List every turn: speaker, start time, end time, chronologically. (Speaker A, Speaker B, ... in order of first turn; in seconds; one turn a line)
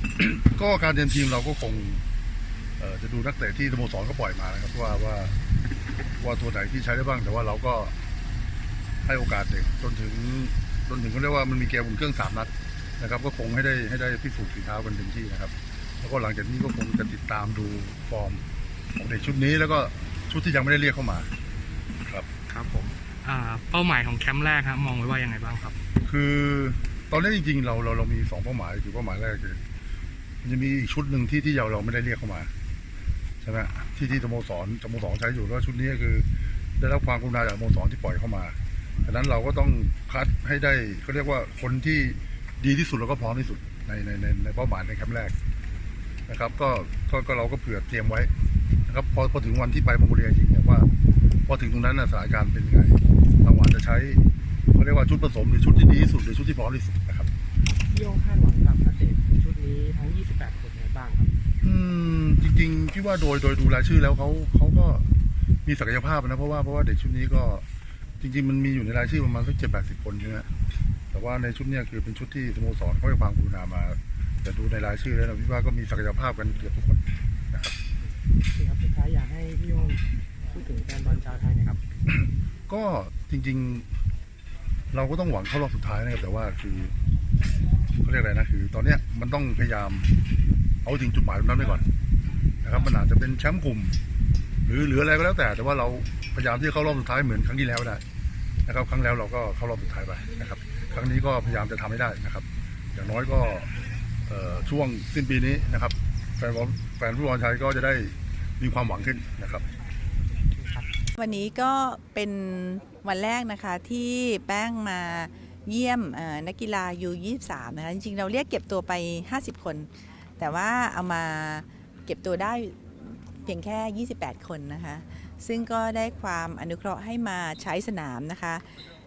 Speaker A: 0.2-2.0
Speaker A: 2.8-5.3
Speaker A: 6.2-8.0
Speaker A: 9.0-18.4
Speaker A: 19.0-21.3
Speaker B: 22.5-25.8
Speaker A: 26.0-29.6
Speaker A: 30.4-32.5
Speaker A: 33.4-36.3
Speaker A: 36.8-45.3
Speaker A: 46.3-48.3
Speaker A: 48.9-50.9
Speaker A: 51.5-54.2
Speaker A: 54.7-57.3
Speaker C: 57.6-61.3
Speaker A: 61.6-65.1
Speaker A: 65.6-67.6
Speaker A: 68.2-70.5
Speaker A: 71.1-77.8
Speaker C: 78.5-81.8
Speaker A: 82.1-83.9
Speaker A: 84.9-86.9
Speaker A: 88.0-90.1
Speaker A: 90.8-91.9
Speaker A: 92.6-94.0
Speaker A: 94.6-98.0
Speaker A: 98.7-103.7
Speaker A: 104.3-109.6
Speaker C: 110.5-110.9
Speaker D: 111.1-128.7